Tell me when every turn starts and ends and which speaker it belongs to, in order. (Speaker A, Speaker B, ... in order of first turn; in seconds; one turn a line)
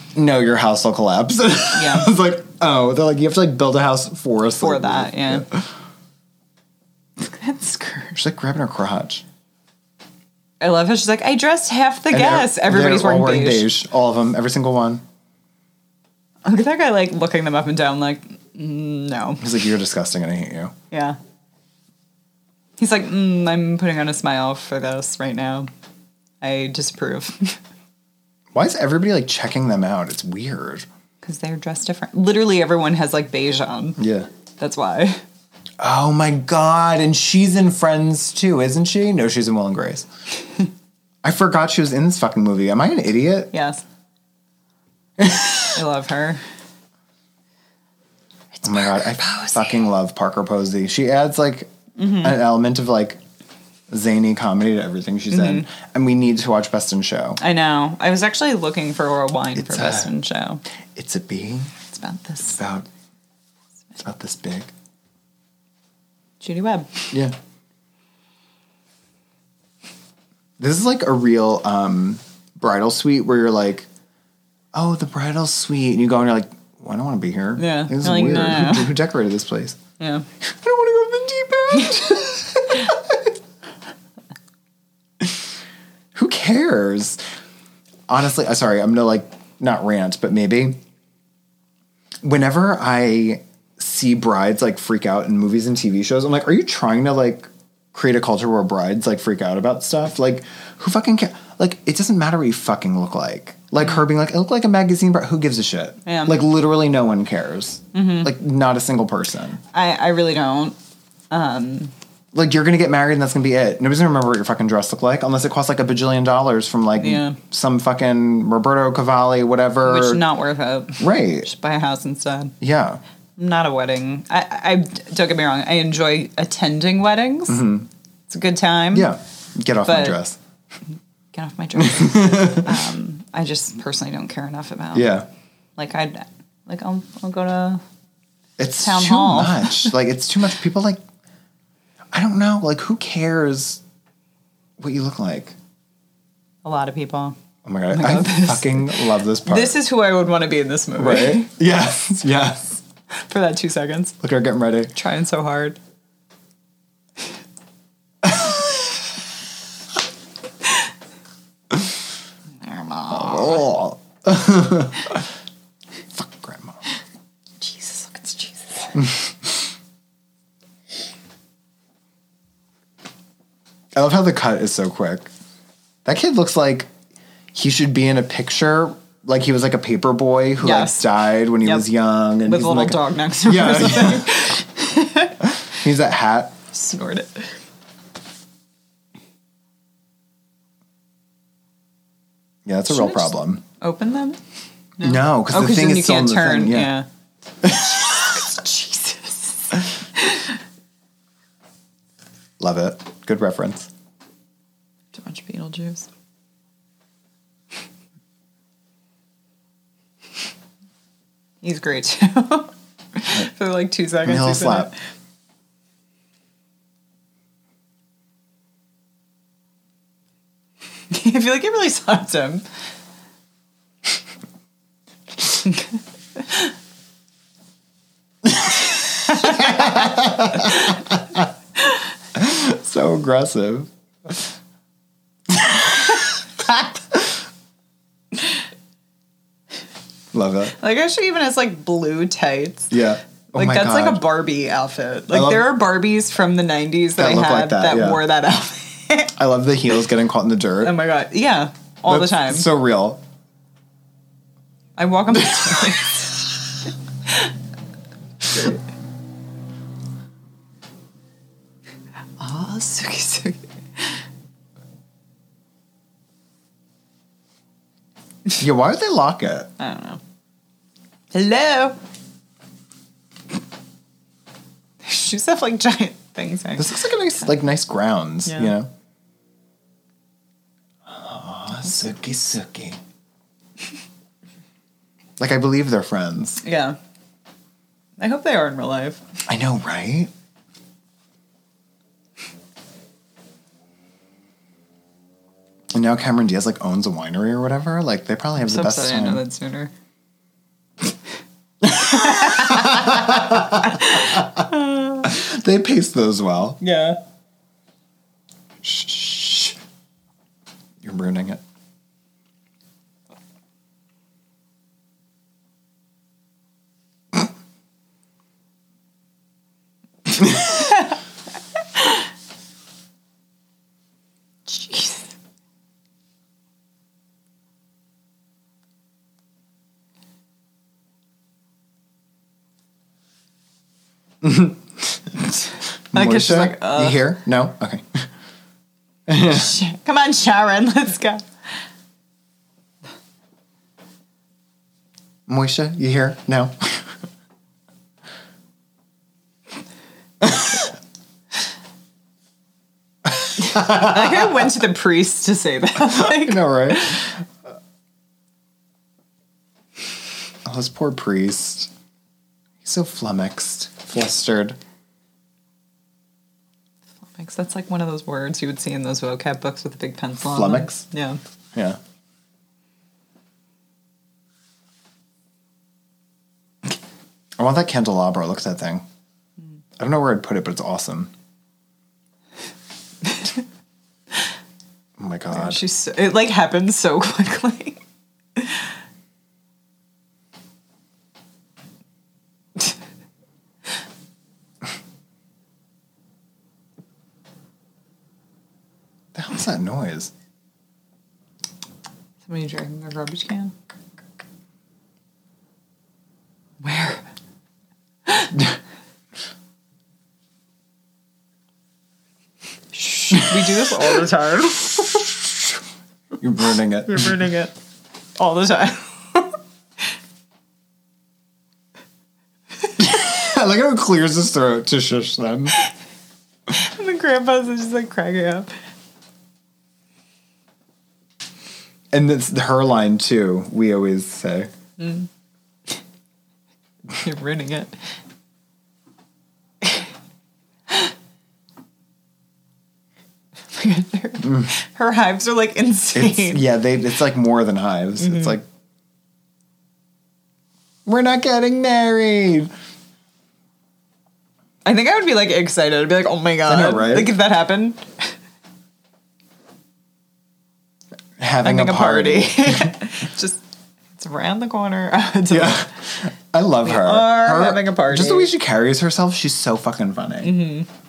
Speaker A: 0.1-5.7
Speaker B: 1.7-2.1
Speaker B: 4.6-5.4
Speaker B: 7.2-8.2
Speaker A: 8.2-9.2
Speaker B: 10.6-13.7
Speaker A: 12.1-15.0
Speaker B: 16.4-19.5
Speaker A: 19.4-20.7
Speaker B: 20.9-21.2
Speaker B: 22.8-25.7
Speaker B: 26.4-27.6
Speaker A: 28.5-30.9
Speaker B: 31.2-34.0
Speaker A: 34.0-34.3
Speaker B: 34.6-35.2
Speaker A: 35.8-40.1
Speaker A: 41.2-43.5
Speaker B: 43.5-43.8
Speaker A: 45.2-45.7
Speaker B: 45.7-46.4
Speaker B: 48.5-49.7
Speaker A: 48.6-53.2
Speaker B: 52.0-52.4
Speaker A: 53.9-57.4
Speaker B: 55.3-55.7
Speaker B: 57.4-60.6
Speaker A: 59.5-60.1
Speaker A: 60.9-61.7
Speaker B: 61.9-62.6
Speaker A: 62.5-62.9
Speaker A: 64.0-64.7
Speaker B: 66.4-66.9
Speaker A: 70.6-73.9
Speaker A: 74.7-79.8
Speaker B: 77.6-78.9
Speaker B: 80.0-80.2
Speaker A: 80.4-83.4
Speaker A: 86.1-87.2
Speaker A: 88.1-90.8
Speaker A: 92.2-109.6
Speaker B: 106.0-106.4
Speaker B: 107.9-108.3
Speaker B: 109.7-110.8
Speaker B: 111.3-111.9
Speaker A: 112.3-120.2
Speaker B: 117.0-117.4
Speaker B: 119.8-122.5
Speaker A: 121.0-121.5
Speaker A: 122.6-123.0
Speaker B: 123.4-127.7
Speaker A: 127.5-127.9
Speaker B: 128.3-129.1
Speaker A: 128.9-130.4
Speaker B: 129.9-130.2
Speaker B: 131.3-135.1
Speaker A: 131.8-132.8
Speaker A: 134.9-135.3
Speaker B: 135.8-137.8
Speaker A: 138.6-141.0
Speaker B: 138.8-139.9
Speaker A: 142.1-143.8
Speaker A: 144.8-145.6
Speaker B: 146.6-147.4
Speaker A: 147.6-149.8
Speaker B: 147.9-151.5
Speaker A: 151.0-152.8
Speaker B: 153.1-154.2
Speaker A: 154.2-154.9
Speaker B: 154.9-155.8
Speaker A: 158.2-158.9
Speaker B: 162.6-163.6
Speaker A: 163.1-165.3
Speaker A: 166.1-166.8
Speaker B: 167.6-169.0
Speaker A: 168.9-169.7
Speaker A: 173.9-175.3
Speaker A: 176.0-176.9
Speaker A: 177.5-184.4
Speaker B: 180.6-181.9
Speaker B: 182.4-185.4
Speaker A: 185.4-186.5
Speaker B: 186.7-187.6
Speaker A: 192.7-193.6
Speaker B: 192.9-194.4
Speaker B: 195.0-197.1
Speaker A: 195.0-196.9
Speaker A: 197.6-198.3
Speaker B: 197.7-200.5
Speaker A: 202.6-203.9
Speaker B: 205.1-206.1
Speaker B: 211.6-214.9
Speaker A: 214.2-214.9
Speaker B: 221.1-222.6
Speaker B: 226.4-226.7
Speaker A: 228.4-231.5
Speaker B: 229.3-229.8
Speaker B: 230.6-230.9
Speaker A: 232.3-234.4
Speaker A: 235.5-237.3
Speaker A: 240.3-240.7
Speaker B: 240.7-242.9
Speaker A: 242.9-244.2
Speaker B: 243.5-249.3
Speaker A: 245.3-245.7
Speaker A: 247.2-248.2
Speaker A: 249.4-250.9
Speaker B: 250.8-252.7
Speaker A: 252.1-253.2
Speaker B: 255.0-256.4
Speaker B: 262.4-264.1
Speaker A: 268.6-269.7
Speaker B: 269.8-270.2
Speaker B: 271.3-272.0
Speaker B: 275.0-277.1
Speaker A: 276.8-278.9
Speaker B: 278.5-278.7
Speaker A: 281.1-283.0
Speaker A: 285.4-286.6
Speaker B: 286.6-287.0
Speaker B: 288.2-289.2
Speaker A: 289.5-290.3
Speaker A: 295.9-299.4
Speaker B: 298.6-299.9
Speaker A: 301.8-304.7
Speaker B: 301.9-305.3
Speaker A: 305.2-306.8
Speaker B: 306.8-307.2
Speaker A: 308.8-309.8
Speaker A: 311.0-311.6
Speaker B: 324.7-325.3
Speaker A: 334.4-338.3
Speaker B: 336.1-337.2
Speaker A: 339.3-339.7
Speaker B: 339.4-341.5
Speaker A: 345.5-347.1
Speaker A: 350.4-350.8
Speaker B: 353.6-357.3
Speaker A: 353.6-354.5
Speaker A: 356.1-357.3
Speaker A: 360.6-361.9
Speaker A: 362.8-364.8
Speaker B: 367.3-371.4
Speaker A: 370.4-371.0
Speaker A: 377.6-379.0
Speaker A: 380.0-381.3
Speaker B: 383.2-383.6
Speaker A: 385.2-385.8
Speaker B: 385.5-388.0
Speaker B: 388.6-388.9
Speaker A: 399.3-400.3
Speaker B: 402.4-403.7
Speaker B: 406.8-407.2
Speaker B: 408.2-408.6
Speaker B: 412.9-415.3
Speaker A: 413.4-413.9
Speaker A: 416.4-417.3
Speaker B: 417.1-417.7
Speaker B: 418.4-419.5
Speaker A: 423.0-425.8
Speaker B: 426.7-428.7
Speaker A: 432.1-434.7
Speaker B: 435.0-435.3
Speaker B: 437.1-437.9
Speaker B: 443.7-446.6
Speaker A: 444.4-444.7
Speaker A: 446.1-448.6
Speaker B: 448.2-448.5
Speaker A: 451.1-452.7
Speaker B: 454.8-458.3
Speaker A: 456.7-457.3
Speaker A: 461.4-463.0
Speaker B: 461.6-463.6
Speaker B: 464.2-465.9
Speaker A: 465.5-470.6
Speaker B: 466.8-468.5
Speaker B: 470.4-470.9